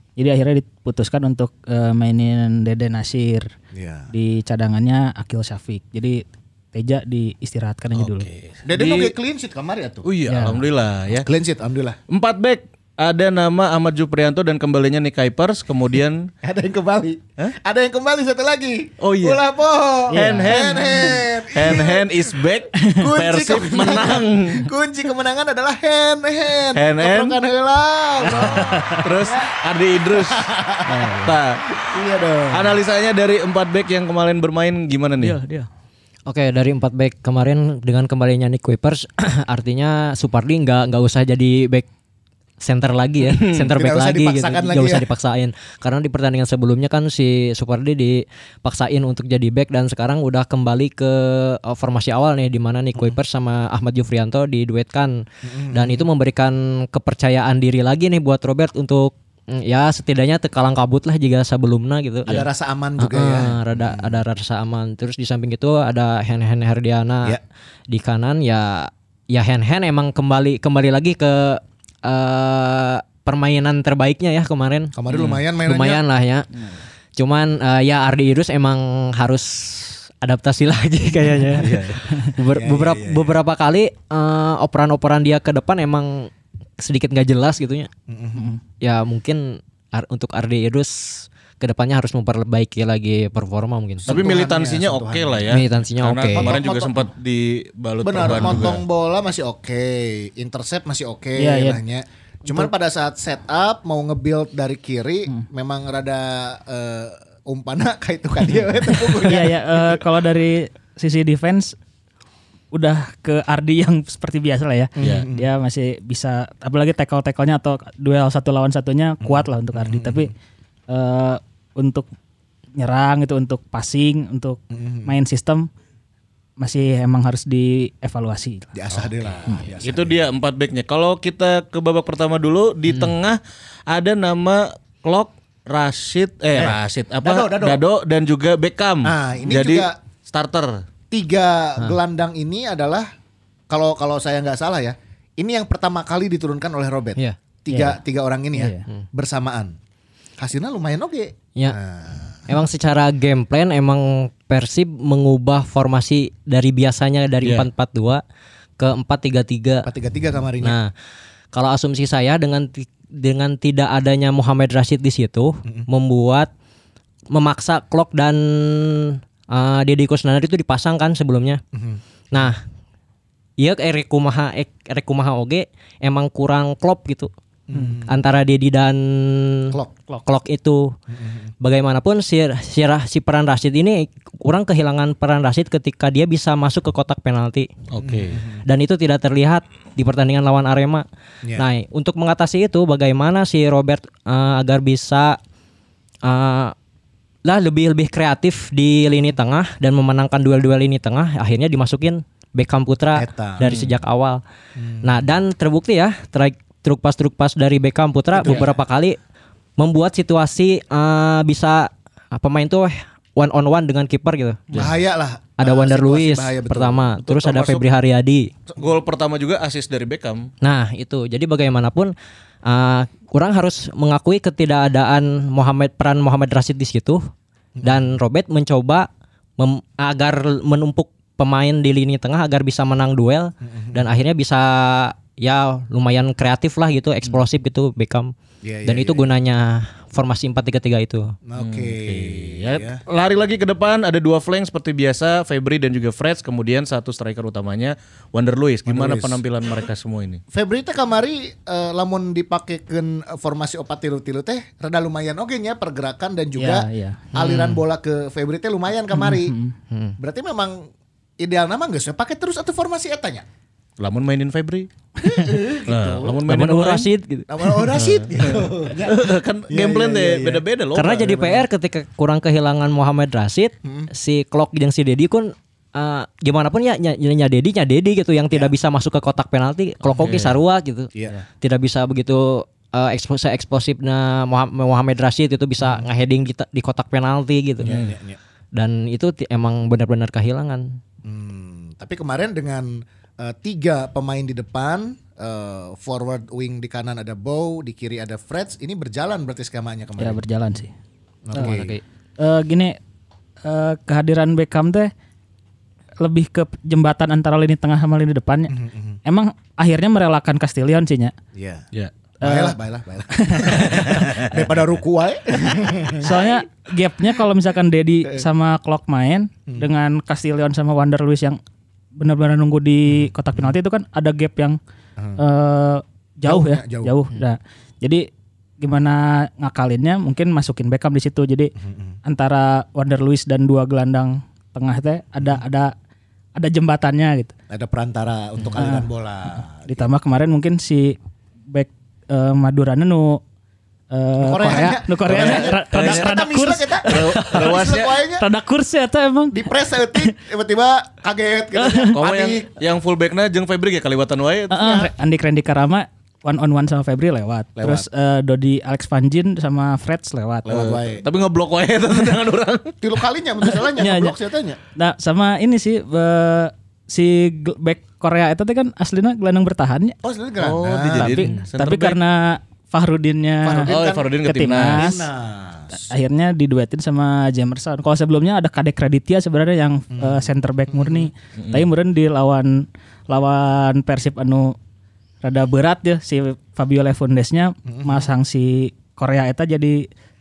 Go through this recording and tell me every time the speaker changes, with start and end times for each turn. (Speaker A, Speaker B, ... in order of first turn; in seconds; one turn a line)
Speaker A: 0.2-3.5
Speaker B: 3.7-4.1
Speaker A: 4.1-8.3
Speaker C: 8.0-9.1
Speaker B: 8.7-10.1
Speaker C: 10.0-11.3
Speaker A: 10.3-10.6
Speaker B: 11.1-12.0
Speaker C: 12.1-16.3
Speaker B: 16.4-29.6
Speaker C: 19.0-19.4
Speaker C: 20.1-24.7
Speaker A: 20.2-20.6
Speaker A: 22.8-23.1
Speaker C: 26.7-27.4
Speaker A: 28.2-29.1
Speaker C: 28.3-30.5
Speaker B: 30.1-31.1
Speaker A: 30.9-31.4
Speaker C: 31.1-31.6
Speaker B: 31.8-32.8
Speaker C: 32.5-35.4
Speaker A: 35.2-35.7
Speaker D: 36.3-41.9
Speaker D: 42.6-62.5
Speaker C: 43.2-43.7
Speaker B: 43.7-45.1
Speaker B: 55.4-56.1
Speaker B: 62.3-64.2
Speaker D: 63.0-76.5
Speaker B: 75.0-76.0
Speaker C: 75.1-75.4
Speaker D: 77.2-87.9
Speaker C: 81.6-82.0
Speaker B: 82.6-83.4
Speaker B: 88.1-88.5
Speaker D: 88.8-94.1
Speaker B: 94.0-95.5
Speaker C: 94.1-98.8
Speaker D: 95.5-96.6
Speaker B: 96.3-97.1
Speaker B: 98.0-110.0
Speaker A: 101.4-101.8
Speaker A: 109.2-111.8
Speaker A: 112.7-120.3
Speaker B: 115.0-115.5
Speaker C: 115.0-115.3
Speaker B: 119.2-120.3
Speaker A: 120.9-122.1
Speaker A: 122.8-125.7
Speaker B: 124.7-125.1
Speaker A: 126.6-128.7
Speaker B: 128.7-130.2
Speaker C: 129.8-140.8
Speaker B: 136.5-137.8
Speaker B: 139.0-140.0
Speaker B: 141.1-143.1
Speaker B: 143.7-149.8
Speaker D: 147.2-148.0
Speaker A: 148.6-148.8
Speaker B: 150.4-152.4
Speaker D: 152.5-158.2
Speaker D: 158.8-159.9
Speaker B: 159.8-160.8
Speaker D: 160.6-160.9
Speaker D: 161.5-166.5
Speaker D: 167.3-171.6
Speaker B: 171.7-172.0
Speaker D: 172.3-172.6
Speaker D: 173.6-177.3
Speaker B: 177.7-178.2
Speaker D: 178.1-180.9
Speaker B: 179.7-180.0
Speaker B: 181.1-181.5
Speaker D: 181.6-187.7
Speaker C: 187.9-188.4
Speaker B: 188.0-188.6
Speaker D: 188.6-191.1
Speaker D: 191.6-195.4
Speaker D: 196.2-196.7
Speaker D: 197.4-204.4
Speaker B: 203.1-203.7
Speaker C: 203.6-203.9
Speaker B: 204.8-205.2
Speaker D: 205.0-209.2
Speaker B: 208.3-208.8
Speaker D: 209.8-214.7
Speaker B: 214.7-217.2
Speaker D: 215.6-218.5
Speaker C: 217.2-217.9
Speaker C: 218.8-220.5
Speaker D: 220.6-222.1
Speaker D: 222.7-227.2
Speaker B: 227.8-228.1
Speaker D: 227.8-238.3
Speaker B: 233.7-234.1
Speaker B: 238.6-239.3
Speaker D: 238.9-241.3
Speaker B: 241.5-243.0
Speaker C: 241.6-250.4
Speaker B: 248.9-249.4
Speaker B: 250.5-259.6
Speaker A: 256.6-257.3
Speaker D: 257.3-257.8
Speaker A: 259.2-259.7
Speaker D: 259.9-260.2
Speaker B: 260.2-263.4
Speaker C: 264.0-264.9
Speaker B: 265.2-266.4
Speaker A: 265.2-265.5
Speaker C: 265.9-267.1
Speaker D: 266.5-268.1
Speaker B: 267.5-270.6
Speaker C: 267.9-271.6
Speaker D: 270.9-288.0
Speaker B: 273.8-274.1
Speaker C: 280.1-280.5
Speaker B: 285.8-286.1
Speaker B: 287.8-288.4
Speaker C: 287.9-288.1
Speaker D: 288.7-291.0
Speaker B: 291.2-300.4
Speaker A: 300.2-300.9
Speaker B: 301.4-302.0
Speaker D: 301.6-302.0
Speaker A: 302.4-303.0
Speaker A: 303.6-305.1
Speaker A: 306.2-311.3
Speaker B: 308.7-309.2
Speaker B: 311.5-311.9
Speaker A: 312.4-312.8
Speaker B: 312.4-316.6
Speaker A: 313.3-314.2
Speaker C: 313.9-314.6
Speaker A: 316.2-321.6
Speaker A: 322.2-324.8
Speaker A: 325.4-328.3
Speaker B: 326.4-327.2
Speaker A: 328.8-331.7
Speaker B: 331.8-332.2
Speaker A: 332.2-335.9
Speaker A: 336.6-337.5
Speaker B: 337.7-340.1
Speaker A: 338.8-339.1
Speaker A: 339.6-341.2
Speaker A: 341.7-343.4
Speaker A: 344.1-350.3
Speaker B: 344.4-348.5
Speaker C: 345.2-346.3
Speaker C: 347.1-348.1
Speaker B: 349.5-352.7
Speaker A: 351.8-352.2
Speaker C: 352.1-355.1
Speaker A: 354.7-360.7
Speaker B: 357.8-358.1
Speaker B: 360.6-361.2
Speaker C: 360.7-363.0
Speaker B: 363.0-364.8
Speaker A: 363.9-364.4
Speaker A: 364.9-370.2
Speaker B: 370.2-371.5
Speaker C: 370.6-372.2
Speaker A: 371.1-373.9
Speaker B: 373.6-374.4
Speaker C: 373.9-375.1
Speaker A: 374.5-375.3
Speaker B: 374.9-376.1
Speaker A: 375.9-384.8
Speaker B: 380.1-381.3
Speaker C: 381.6-381.9
Speaker A: 385.4-390.1
Speaker B: 387.9-388.3